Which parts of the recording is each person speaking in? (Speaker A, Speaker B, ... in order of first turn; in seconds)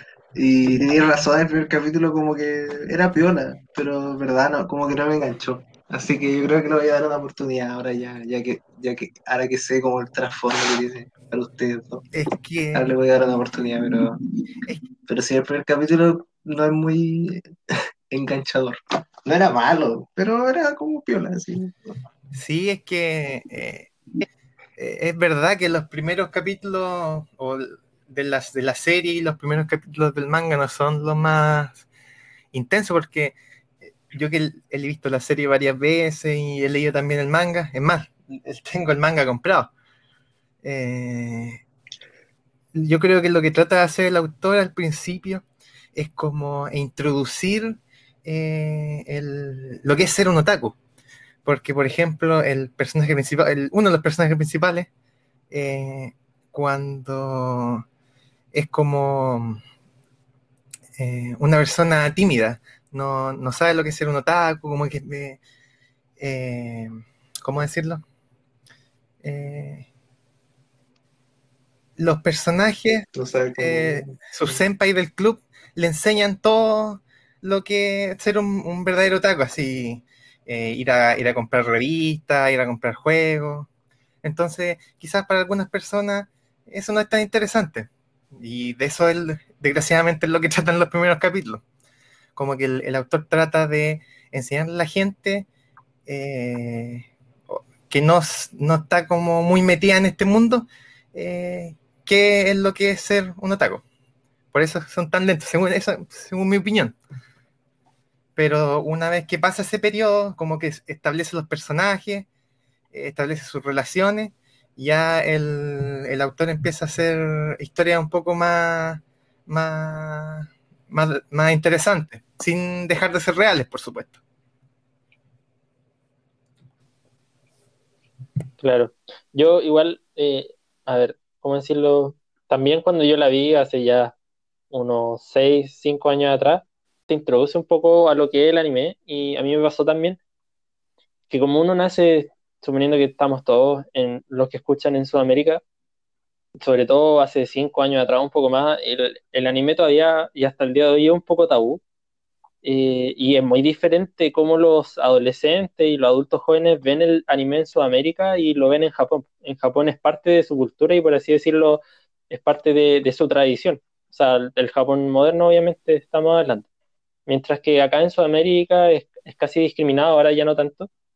Speaker A: 0.3-12.1, 12.7-14.2, 15.1-21.9, 73.1-74.2
Speaker B: 12.1-12.9, 22.3-24.2, 24.8-31.9, 32.5-39.7, 40.6-41.6, 42.7-50.8, 51.4-54.9, 55.5-57.9, 58.5-59.6, 61.0-65.4, 66.2-68.0, 69.2-69.9, 72.0-83.7, 84.2-91.6, 92.3-95.5, 96.0-103.8, 104.5-107.0, 108.3-112.3, 112.9-124.2
Speaker C: 128.6-134.1, 134.7-140.2, 141.3-145.6, 146.6-151.8, 152.6-166.6, 167.3-170.9